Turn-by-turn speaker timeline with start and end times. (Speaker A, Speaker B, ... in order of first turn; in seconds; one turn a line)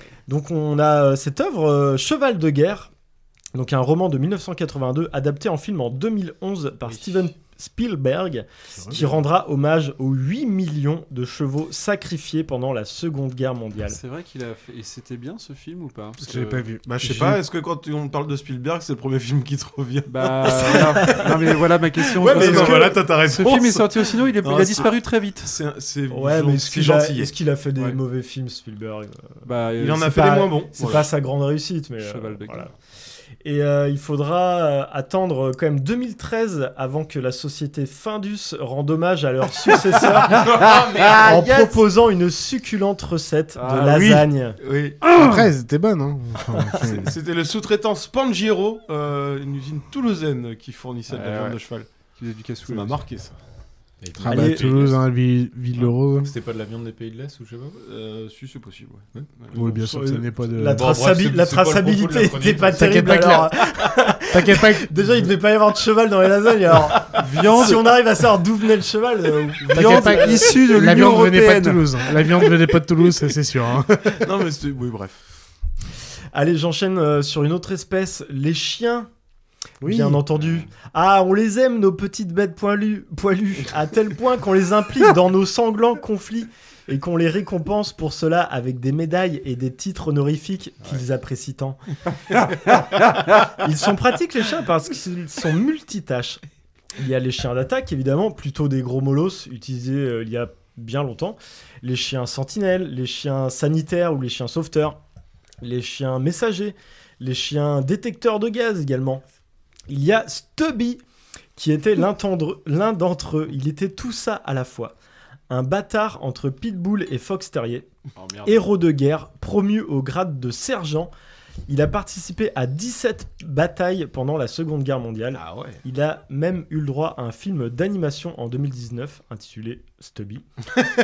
Speaker A: 0.3-2.9
Speaker A: 3.5-14.0
Speaker B: 6.9-7.2
Speaker C: 8.7-9.2
Speaker D: 13.8-16.7
Speaker C: 16.2-17.4
Speaker B: 16.8-27.3
Speaker D: 20.1-25.6
Speaker A: 20.9-21.2
Speaker A: 22.2-23.0
Speaker A: 26.1-32.7
Speaker D: 29.4-30.2
Speaker B: 29.8-31.1
Speaker D: 32.0-32.7
Speaker A: 33.4-44.6
Speaker B: 40.4-41.8
Speaker E: 40.5-41.2
Speaker D: 43.6-44.3
Speaker B: 44.6-45.1
Speaker C: 45.2-47.1
Speaker B: 46.8-51.9
Speaker D: 51.1-51.6
Speaker D: 52.2-53.0
Speaker B: 52.6-53.4
Speaker E: 54.0-55.0
Speaker C: 54.2-56.3
Speaker A: 54.2-54.8
Speaker E: 56.2-57.8
Speaker B: 57.8-60.1
Speaker C: 59.5-60.9
Speaker A: 59.9-70.5
Speaker E: 60.6-62.8
Speaker C: 62.7-63.5
Speaker C: 64.3-64.9
Speaker D: 67.2-67.9
Speaker D: 69.6-71.9
Speaker C: 69.7-74.2
Speaker B: 74.1-75.2
Speaker A: 76.3-79.1
Speaker C: 79.8-80.2
Speaker A: 79.8-91.8
Speaker A: 92.3-96.4
Speaker A: 97.0-105.0
Speaker A: 105.6-109.2
Speaker A: 109.9-111.0
Speaker A: 111.6-114.9
Speaker A: 115.5-117.9
Speaker B: 118.2-118.6
Speaker A: 118.4-121.1
Speaker A: 121.7-130.5
Speaker B: 125.3-125.8